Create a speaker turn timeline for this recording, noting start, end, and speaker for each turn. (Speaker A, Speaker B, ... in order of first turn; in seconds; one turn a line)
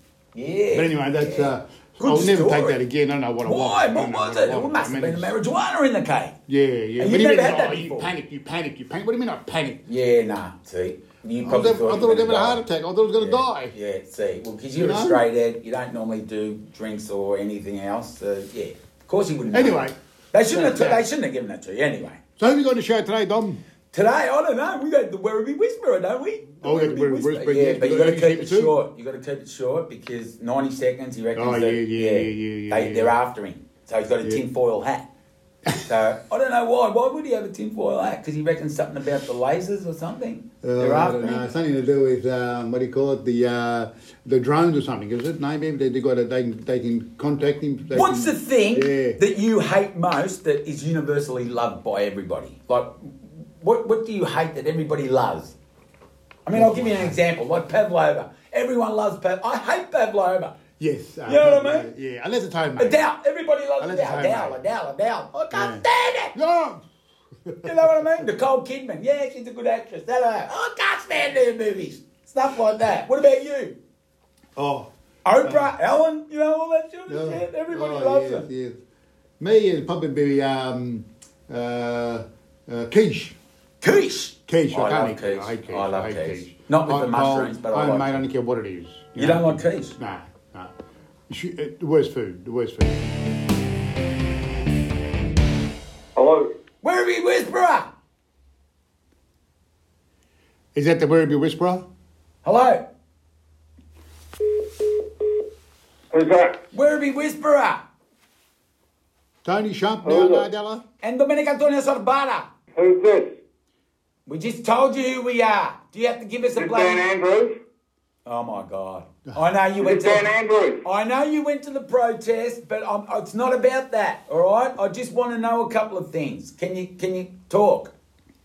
Speaker A: 0.3-2.8
Speaker B: 0.7-5.3
Speaker A: 3.4-6.3
Speaker B: 6.5-9.8
Speaker A: 7.0-8.1
Speaker A: 9.9-12.6
Speaker B: 11.4-13.7
Speaker A: 13.2-22.2
Speaker B: 14.8-15.2
Speaker B: 19.5-19.9
Speaker B: 20.5-21.0
Speaker B: 22.4-23.6
Speaker A: 23.9-35.0
Speaker B: 26.6-28.7
Speaker B: 31.3-33.1
Speaker A: 35.8-41.5
Speaker B: 40.6-49.2
Speaker A: 47.9-55.5
Speaker A: 56.4-60.6
Speaker B: 56.5-57.2
Speaker B: 60.8-63.0
Speaker A: 61.3-61.9
Speaker A: 62.8-66.3
Speaker B: 63.8-64.6
Speaker B: 65.5-66.8
Speaker B: 67.5-67.7
Speaker A: 67.6-73.8
Speaker B: 74.6-74.9
Speaker A: 75.2-78.5
Speaker B: 75.4-75.7
Speaker B: 77.1-78.8
Speaker B: 79.4-83.3
Speaker A: 83.8-88.2
Speaker B: 84.5-90.7
Speaker A: 89.2-89.9
Speaker B: 91.3-93.0
Speaker C: 96.2-96.5
Speaker A: 96.8-97.9
Speaker B: 100.7-101.8
Speaker A: 102.4-102.8
Speaker C: 106.1-106.6
Speaker A: 106.7-107.8
Speaker B: 109.4-110.8
Speaker C: 110.0-110.4
Speaker A: 111.0-112.5
Speaker C: 112.7-113.2
Speaker A: 114.2-117.0
Speaker C: 116.6-117.5
Speaker A: 118.2-120.3
Speaker C: 119.8-120.8
Speaker A: 120.8-127.9